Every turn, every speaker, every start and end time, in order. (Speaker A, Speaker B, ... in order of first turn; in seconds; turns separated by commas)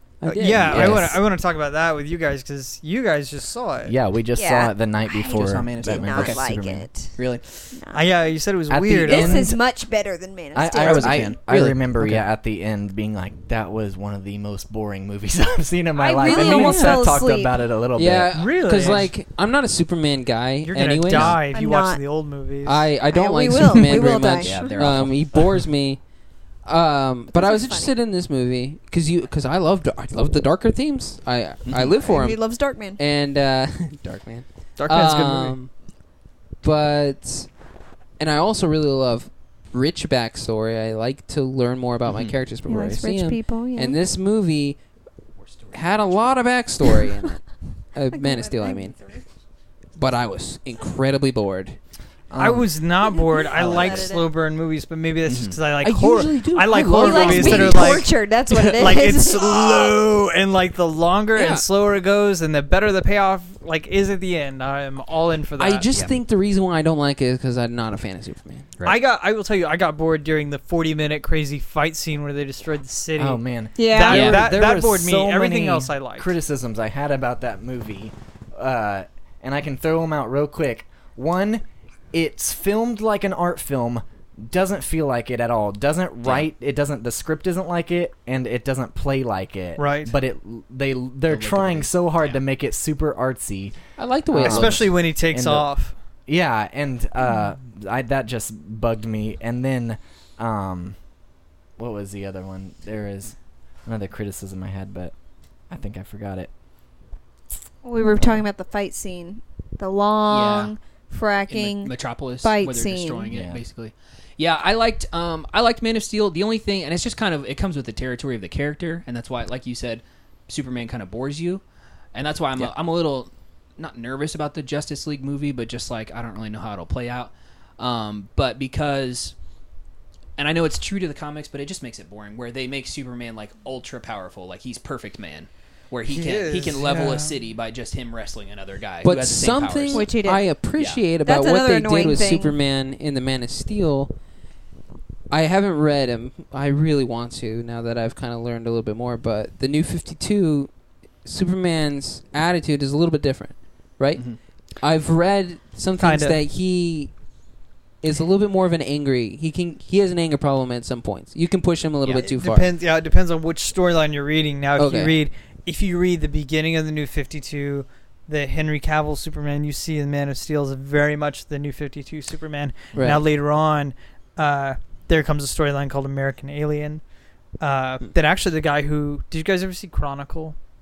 Speaker A: 0.2-1.2, Speaker B: 0.2-3.9, Speaker C: 0.6-1.2, Speaker C: 3.9-6.9, Speaker D: 4.4-7.2, Speaker E: 5.2-6.5, Speaker E: 7.2-7.5, Speaker D: 7.7-8.1, Speaker B: 7.9-9.5, Speaker C: 8.7-9.6, Speaker D: 9.0-11.3, Speaker C: 10.5-18.4, Speaker E: 10.8-12.2, Speaker A: 11.5-12.2, Speaker D: 16.0-17.5, Speaker E: 16.2-17.0, Speaker A: 16.5-17.0, Speaker A: 18.0-21.4, Speaker B: 18.3-19.1, Speaker B: 20.6-22.9, Speaker E: 21.1-21.4, Speaker D: 21.5-22.0, Speaker A: 22.6-26.0, Speaker D: 23.1-24.9, Speaker E: 24.1-25.5, Speaker A: 26.6-32.4, Speaker D: 27.3-27.9, Speaker E: 31.6-32.0, Speaker D: 32.0-33.0, Speaker A: 33.0-35.7, Speaker B: 34.8-35.6, Speaker A: 36.6-37.5, Speaker A: 38.2-44.8, Speaker E: 42.1-42.3, Speaker D: 42.7-44.0, Speaker E: 45.4-46.4, Speaker A: 45.7-49.0, Speaker D: 48.1-49.2, Speaker A: 50.0-51.8, Speaker C: 52.3-52.6, Speaker B: 52.4-58.1, Speaker D: 53.2-54.3, Speaker E: 53.5-54.1, Speaker E: 55.3-55.6, Speaker A: 55.8-58.0, Speaker D: 56.9-60.0, Speaker B: 58.7-65.9, Speaker E: 61.4-61.6, Speaker A: 65.6-68.7, Speaker B: 68.8-76.3, Speaker C: 73.2-93.8, Speaker D: 73.8-74.4, Speaker E: 74.0-74.4, Speaker E: 86.2-86.5, Speaker B: 89.8-90.1, Speaker E: 91.3-92.4, Speaker A: 94.0-94.8, Speaker C: 94.3-95.7, Speaker B: 94.4-96.0, Speaker C: 96.3-101.0, Speaker C: 101.8-105.1, Speaker C: 105.7-106.5, Speaker D: 107.8-113.3, Speaker C: 108.0-108.5, Speaker E: 110.3-110.7, Speaker E: 111.5-121.6, Speaker C: 113.3-113.6, Speaker E: 122.1-129.3, Speaker E: 130.4-140.1, Speaker B: 136.1-137.4, Speaker A: 139.0-144.1, Speaker D: 139.9-140.5, Speaker E: 140.8-141.0, Speaker D: 141.2-142.6, Speaker A: 145.3-150.7, Speaker A: 151.2-157.1, Speaker B: 156.0-156.4, Speaker A: 158.0-162.7, Speaker B: 162.2-177.0, Speaker A: 164.8-165.2, Speaker A: 172.9-173.2, Speaker B: 177.6-180.6